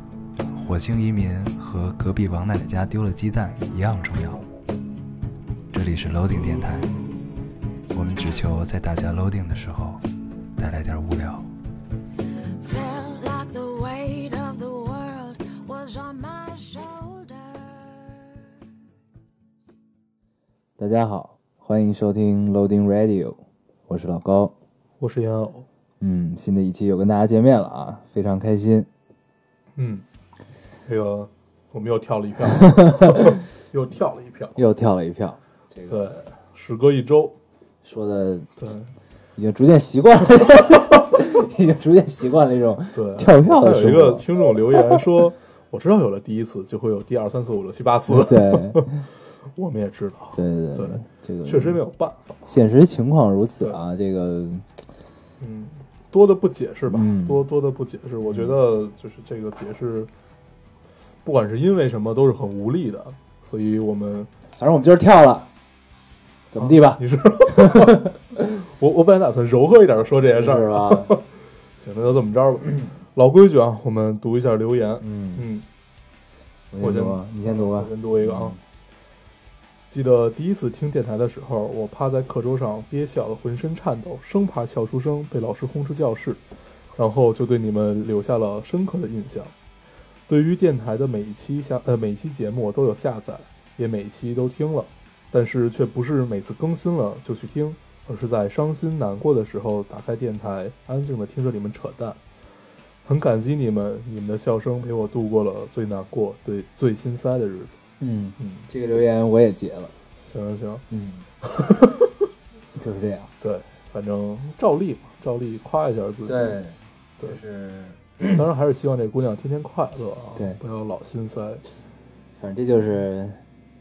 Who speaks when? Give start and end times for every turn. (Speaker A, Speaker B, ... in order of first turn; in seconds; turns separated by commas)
Speaker A: 0.5-4.5, Speaker A: 5.7-6.9, Speaker A: 7.9-10.0, Speaker A: 10.6-11.5, Speaker B: 12.6-18.4, Speaker A: 20.8-24.5, Speaker C: 25.0-25.7, Speaker A: 26.0-28.9, Speaker C: 29.8-30.1, Speaker C: 30.9-34.6, Speaker A: 32.5-33.4, Speaker A: 34.6-36.3, Speaker C: 35.9-37.4, Speaker A: 37.8-38.6, Speaker C: 38.6-38.9, Speaker A: 39.4-45.0, Speaker C: 42.9-48.9, Speaker A: 48.1-49.1, Speaker C: 49.5-52.4, Speaker A: 50.3-51.8, Speaker A: 52.4-54.7, Speaker C: 55.4-60.1, Speaker A: 56.9-57.5, Speaker A: 58.3-58.5, Speaker C: 61.2-64.3, Speaker A: 64.6-65.5, Speaker A: 66.5-68.1, Speaker C: 66.6-71.2, Speaker A: 70.3-71.2, Speaker C: 71.8-75.7, Speaker A: 75.0-75.5, Speaker A: 76.7-78.6, Speaker C: 76.8-78.6, Speaker C: 79.9-86.4, Speaker C: 87.0-89.5, Speaker C: 90.3-102.2, Speaker C: 103.0-107.8, Speaker A: 108.0-109.9, Speaker C: 110.2-110.8, Speaker A: 110.9-111.3, Speaker C: 111.4-112.2, Speaker A: 112.8-113.3, Speaker C: 113.4-116.6, Speaker A: 116.3-118.4, Speaker C: 118.3-121.6, Speaker A: 122.4-123.4